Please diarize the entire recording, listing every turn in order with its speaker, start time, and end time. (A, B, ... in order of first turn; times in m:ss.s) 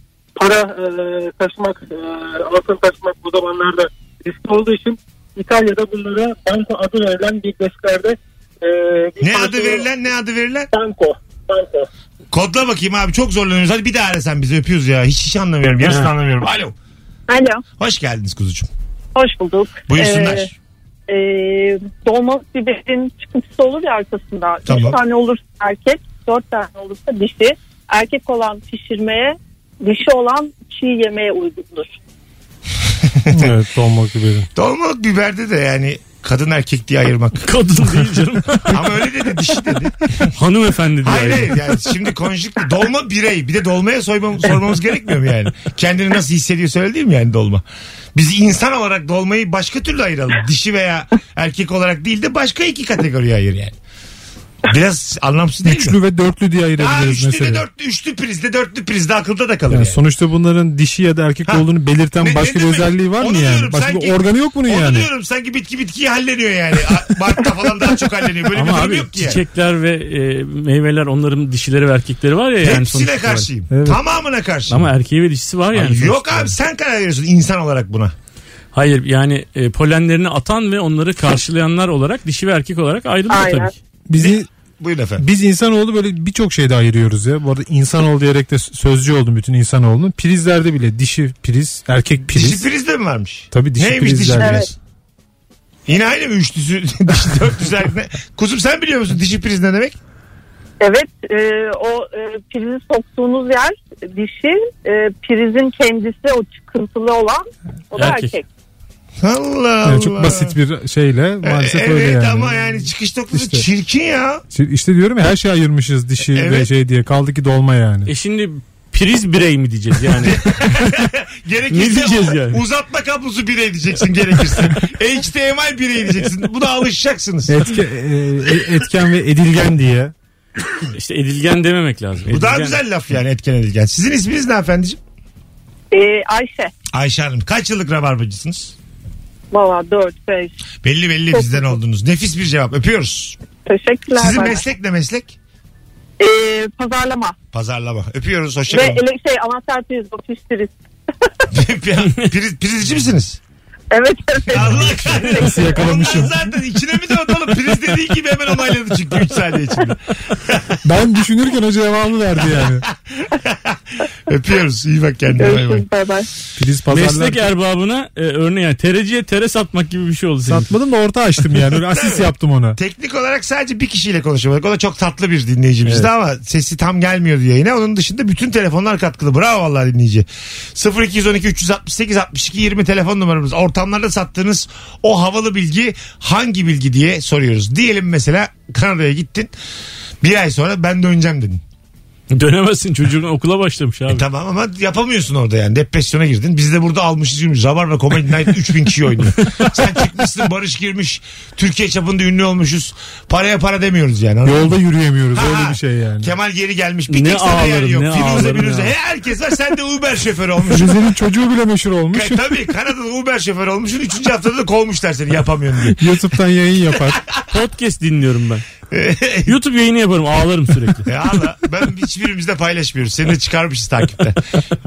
0:00.4-0:09.9 A
0:09.2-0:10.7 B
0:10.7-0:11.9 A
0:12.3-0:16.7 B
0:17.3-0:17.6 C
0:17.8-0:18.7 B
0:19.1-0:20.5 C
0:19.9-0:20.5 B
0:21.1-0:32.0 C
0:24.6-0:25.0 B
0:33.1-0:33.5 B
0:33.3-0:34.5 D
0:34.5-0:37.4 B
0:37.4-0:38.8 E
0:38.7-0:40.3 B
0:40.3-0:41.6 E
0:41.0-0:47.6 B
0:48.1-0:53.7 B
0:54.6-0:56.0 B
0:55.6-0:57.6 D
0:56.8-1:00.0 B
0:59.7-1:05.1 D
1:02.2-1:09.4 B
1:08.5-1:13.5 E
1:12.6-1:14.9 B
1:13.7-1:14.0 D
1:14.7-1:16.5 E
1:15.7-1:18.1 B
1:18.7-1:23.7 E
1:23.3-1:23.7 C
1:24.1-1:24.5 D
1:24.2-1:25.2 B
1:25.2-1:32.6 D
1:32.3-1:34.7 B
1:33.5-1:34.6 D
1:34.4-1:34.7 C
1:35.9-1:40.0 B
1:40.8-1:48.4 C
1:48.0-1:48.4 E
1:49.2-1:50.5 B
1:49.8-1:53.6 D
1:51.4-1:54.4 B
1:54.5-1:58.1 D
1:56.3-1:56.7 B
1:58.0-2:01.1 E
2:00.2-2:07.6 B
2:01.7-2:02.6 E
2:07.5-2:10.1 D
2:10.9-2:12.8 E
2:12.3-2:15.0 B
2:15.9-2:16.7 C
2:16.9-2:18.7 B
2:19.5-2:20.5 C
2:20.8-2:23.4 B
2:21.3-2:21.7 C
2:23.6-2:24.6 C
2:24.2-2:25.4 B
2:26.2-2:27.3 C
2:27.5-2:29.0 B
2:28.7-2:30.7 C
2:31.5-2:33.4 B
2:33.9-2:36.2 C
2:34.5-2:40.8 B
2:34.7-2:36.4 D
2:40.8-2:42.8 D
2:42.8-2:45.8 B
2:45.4-2:46.3 C
2:46.6-2:47.4 D
2:46.9-2:50.7 E
2:50.4-2:52.8 D
2:51.9-3:09.5 B
3:10.2-3:11.6 B
3:12.3-3:14.2 E
3:14.1-3:24.8 B
3:24.4-3:26.3 D
3:25.3-3:31.0 B
3:27.1-3:28.9 E
3:30.7-3:32.6 D
3:32.1-3:36.0 B
3:35.9-3:37.2 D
3:37.1-3:37.4 B
3:37.5-3:38.6 E
3:38.9-3:39.5 B
3:39.5-3:41.1 E
3:41.0-3:44.4 B